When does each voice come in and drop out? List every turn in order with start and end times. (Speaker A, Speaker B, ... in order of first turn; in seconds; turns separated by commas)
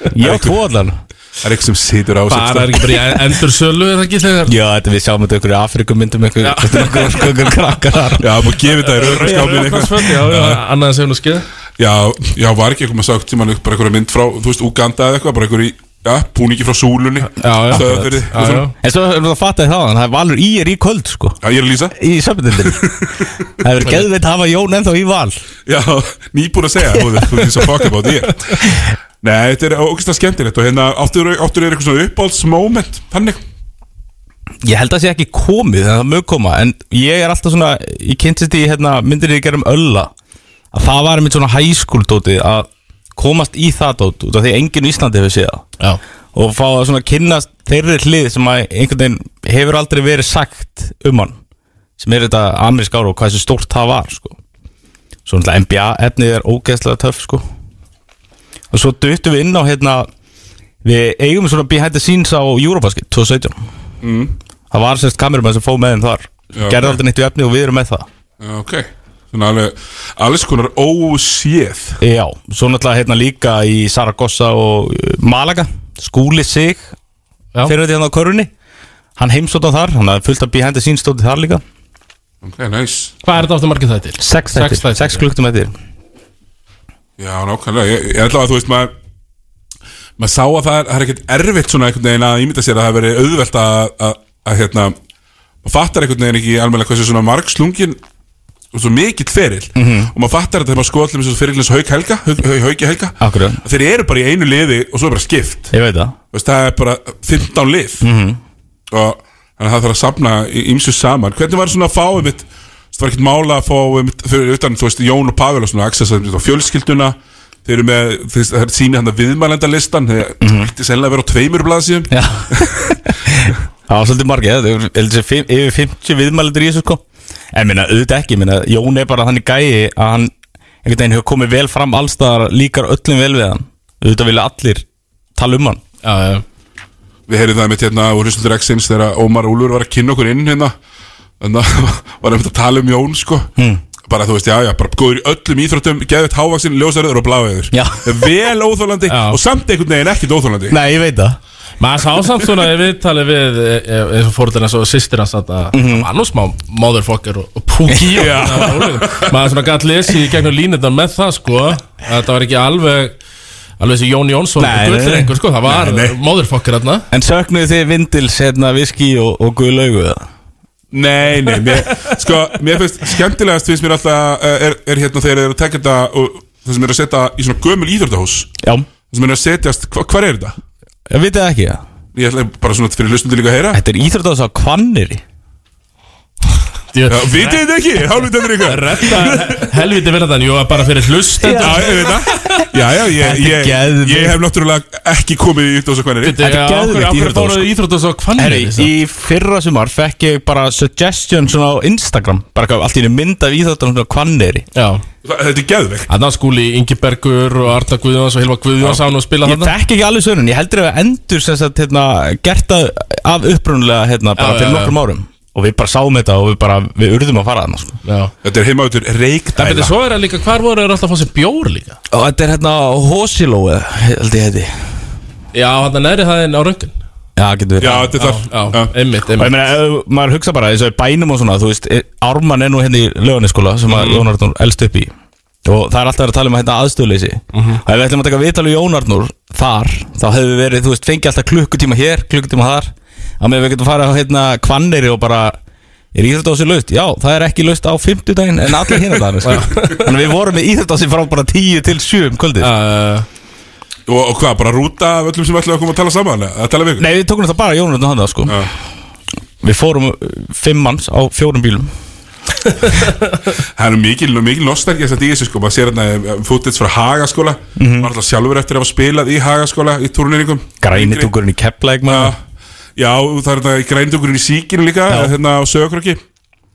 Speaker A: 0.1-1.0, Speaker B: 0.2-0.5, Speaker B: 1.4-3.1, Speaker C: 2.3-4.5, Speaker A: 4.5-8.3, Speaker C: 6.4-7.5, Speaker B: 8.2-10.6, Speaker C: 8.9-11.4, Speaker B: 11.8-18.7, Speaker C: 17.4-18.7, Speaker A: 17.7-18.2, Speaker A: 18.8-21.4, Speaker B: 21.4-21.9, Speaker A: 21.9-22.9, Speaker A: 23.6-25.4, Speaker B: 25.7-28.7, Speaker B: 29.2-33.4, Speaker A: 34.6-40.1, Speaker A: 40.7-45.6, Speaker A: 46.3-51.4, Speaker A: 52.0-54.4, Speaker A: 55.3-57.5, Speaker A: 58.7-60.1, Speaker A: 60.8-63.6, Speaker B: 64.0-64.3, Speaker A: 64.7-68.1, Speaker B: 66.5-67.0, Speaker B: 68.4-72.0, Speaker A: 72.0-76.9, Speaker A: 77.7-78.5, Speaker A: 79.2-81.6, Speaker B: 82.4-83.2, Speaker C: 83.2-85.2, Speaker A: 84.2-85.7, Speaker B: 87.2-88.9, Speaker B: 90.2-95.0, Speaker B: 95.6-98.0, Speaker B: 98.7-105.7, Speaker A: 99.8-100.1, Speaker A: 103.2-103.6, Speaker A: 105.7-106.2, Speaker B: 106.3-108.0, Speaker A: 108.0-108.4, Speaker B: 108.9-122.7, Speaker A: 120.4-120.7, Speaker A: 122.1-127.0, Speaker A: 127.5-130.3, Speaker A: 130.8-134.9, Speaker A: 135.4-135.8, Speaker C: 136.0-136.4, Speaker B: 137.3-140.7, Speaker B: 141.4-143.5, Speaker A: 143.6-143.8, Speaker B: 144.1-150.8, Speaker A: 147.7-148.2, Speaker C: 149.1-149.4, Speaker A: 150.7-151.4, Speaker C: 151.8-163.2, Speaker A: 155.7-156.1, Speaker A: 157.9-158.4, Speaker B: 158.2-159.2, Speaker C: 163.8-167.1, Speaker A: 164.6-165.3, Speaker B: 165.7-166.2, Speaker A: 167.1-170.3, Speaker B: 170.9-178.6, Speaker B: 179.1-180.6, Speaker A: 181.1-181.8, Speaker B: 182.2-183.8, Speaker A: 183.7-185.2, Speaker C: 186.9-187.6, Speaker B: 187.1-189.5, Speaker C: 188.6-192.2, Speaker A: 191.4-192.2, Speaker B: 191.6-196.4, Speaker A: 193.2-194.4, Speaker C: 196.2-198.9, Speaker A: 196.4-197.7, Speaker A: 198.4-204.7, Speaker C: 204.8-205.0, Speaker B: 205.2-206.1, Speaker C: 206.1-209.7, Speaker A: 209.4-218.0, Speaker C: 214.4-215.0, Speaker C: 218.1-218.3, Speaker B: 218.4-219.9, Speaker C: 219.6-222.0, Speaker A: 222.1-224.7, Speaker C: 225.5-226.9, Speaker A: 227.4-228.1, Speaker B: 227.8-228.9, Speaker C: 228.2-229.6, Speaker A: 229.4-235.1, Speaker C: 233.9-234.3, Speaker A: 235.7-245.6, Speaker C: 237.5-237.8, Speaker A: 246.1-252.7, Speaker C: 249.4-250.1, Speaker C: 252.6-253.3, Speaker B: 254.1-257.1, Speaker A: 257.0-258.6, Speaker A: 259.6-261.9, Speaker B: 263.8-271.3, Speaker A: 267.8-268.1, Speaker A: 270.8-272.3, Speaker B: 272.1-272.4, Speaker B: 273.0-276.2